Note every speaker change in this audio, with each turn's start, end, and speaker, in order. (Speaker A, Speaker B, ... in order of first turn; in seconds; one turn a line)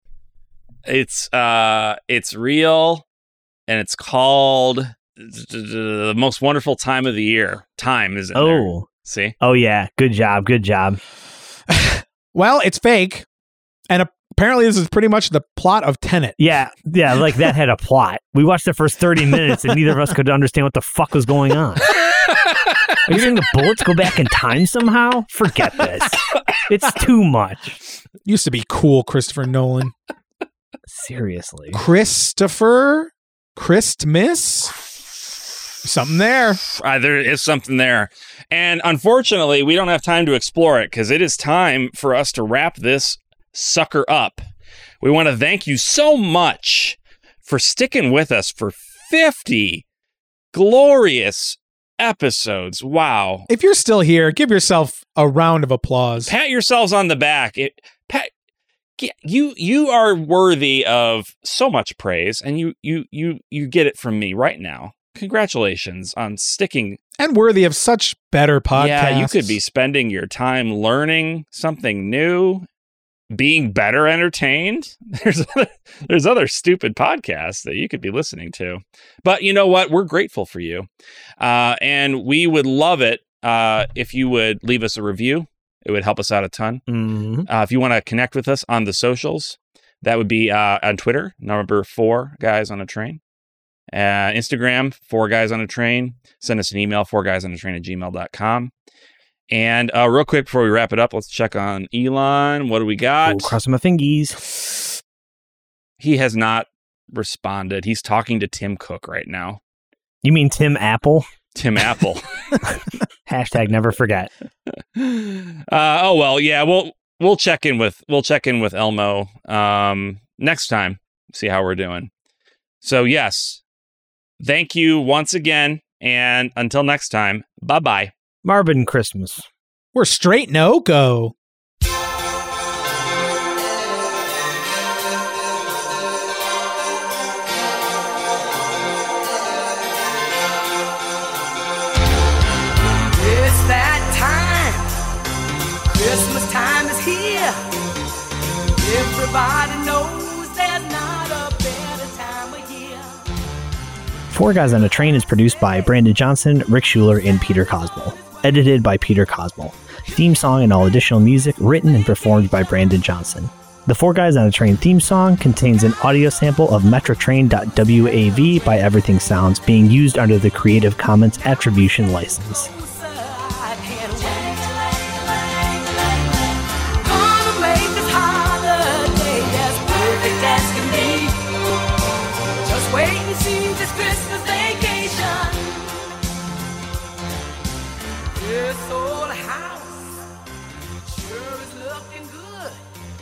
Speaker A: 0.8-3.0
Speaker A: 3.7-9.3
Speaker B: 8.3-8.9
Speaker B: 9.4-11.0
Speaker C: 11.7-13.2
Speaker C: 13.9-16.4
Speaker B: 16.4-21.9
Speaker B: 23.1-27.8
Speaker C: 28.2-29.9
Speaker B: 30.9-31.8
Speaker C: 31.7-34.7
Speaker C: 35.8-36.6
Speaker A: 36.6-44.4
Speaker A: 45.0-49.8
Speaker A: 50.5-53.5
Speaker C: 53.5-56.3
Speaker A: 56.2-58.3
Speaker A: 59.0-67.0
Speaker C: 67.2-69.6
Speaker A: 68.7-72.7
Speaker A: 73.3-80.9
Speaker A: 81.4-86.8
Speaker B: 86.9-87.5
Speaker A: 87.5-93.2
Speaker A: 93.9-98.7
Speaker A: 99.5-103.6
Speaker B: 103.2-104.6
Speaker A: 106.0-109.6
Speaker B: 110.2-111.2
Speaker A: 111.5-112.3
Speaker B: 113.2-114.3
Speaker A: 114.9-122.1
Speaker A: 122.8-123.6
Speaker A: 124.4-128.1
Speaker B: 128.4-129.4
Speaker C: 129.9-131.3
Speaker D: 143.1-144.9
Speaker D: 145.8-147.7
Speaker D: 148.7-153.3
Speaker B: 154.3-172.7
Speaker D: 172.5-181.8
Speaker D: 182.6-186.1
Speaker D: 188.3-190.2
Speaker D: 191.0-192.9